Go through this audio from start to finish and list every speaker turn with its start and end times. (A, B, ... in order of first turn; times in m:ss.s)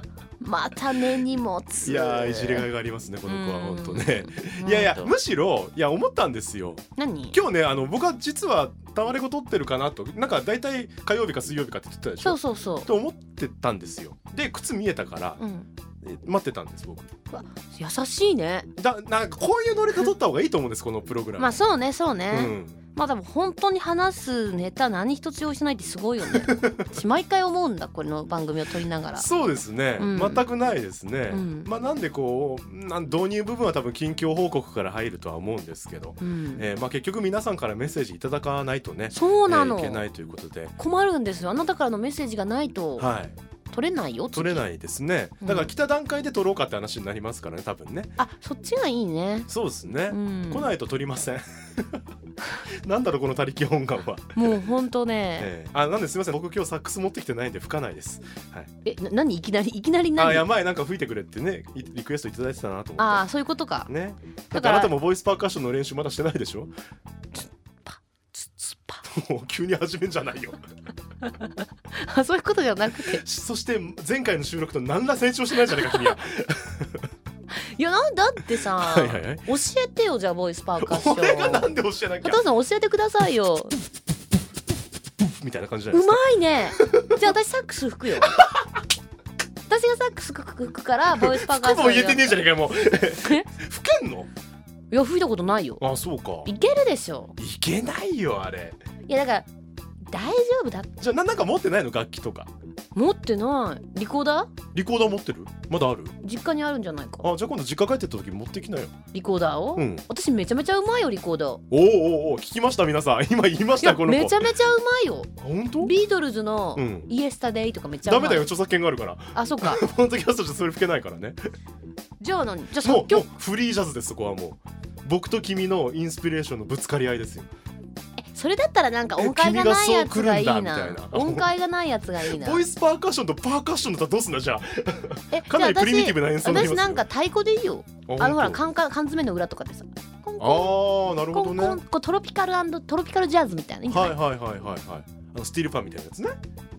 0:00.4-0:02.7 A
0:01.8-0:15.4 B
0:03.2-0:05.1 A
0:07.0-0:07.4 A
0:12.2-0:12.9 A
0:15.4-0:15.7 A
0:16.0-0:17.1 B
0:17.3-0:18.7 A
0:18.8-0:21.6 B
0:21.4-0:29.3 A
0:22.3-0:22.8 B
0:26.5-0:26.8 B
0:29.2-0:40.7 B
0:30.0-0:30.4 A
0:31.3-0:31.7 A
0:36.2-0:36.7 A
0:39.1-0:40.0 A
0:40.8-0:43.1 A
0:43.0-0:43.3 B
0:43.7-0:44.6 A
0:44.3-0:48.1 B
0:45.4-0:45.7 A
0:48.2-0:49.5 A
0:49.5-0:52.0 B
0:50.1-0:50.7 A
0:52.8-0:54.6 B
0:54.3-0:55.5 A
0:55.4-0:58.7 B
0:58.8-1:00.5 A
1:00.2-1:03.2 B
1:03.0-1:03.9 A
1:03.8-1:06.7 B
1:04.5-1:04.9 A
1:07.3-1:09.0 A
1:09.0-1:10.6 B
1:11.9-1:13.2 A
1:13.1-1:16.9 B
1:17.5-1:21.7 A
1:18.8-1:19.5 B
1:20.8-1:22.4 B
1:22.2-1:23.7 A
1:25.2-1:26.2 B
1:25.9-1:28.3 A
1:26.8-1:27.1 B
1:28.2-1:28.6 B
1:29.7-1:33.4 A
1:31.2-1:34.3 B
1:34.9-1:35.8 A
1:35.8-1:36.5 B
1:36.4-1:37.3 A
1:37.4-1:38.8 B
1:39.0-1:39.5 A
1:40.0-1:40.9 A
1:41.0-1:42.5 B
1:42.9-1:44.5 A
1:44.7-1:46.2 B
1:46.2-1:47.3 A
1:47.2-1:48.9 B
1:49.1-1:51.6 A
1:49.8-1:50.0 B
1:51.7-1:54.5 B
1:53.8-1:58.5 A
1:55.4-1:55.9 B
1:56.7-1:57.1 B
1:58.0-2:01.4 B
1:59.3-1:59.8 A
2:02.2-2:03.2 A
2:02.8-2:07.5 B
2:08.2-2:12.6 A
2:09.2-2:11.5 B
2:12.2-2:17.0 B
2:15.3-2:24.2 A
2:18.0-2:18.6 B
2:20.4-2:21.8 B
2:23.9-2:26.4 B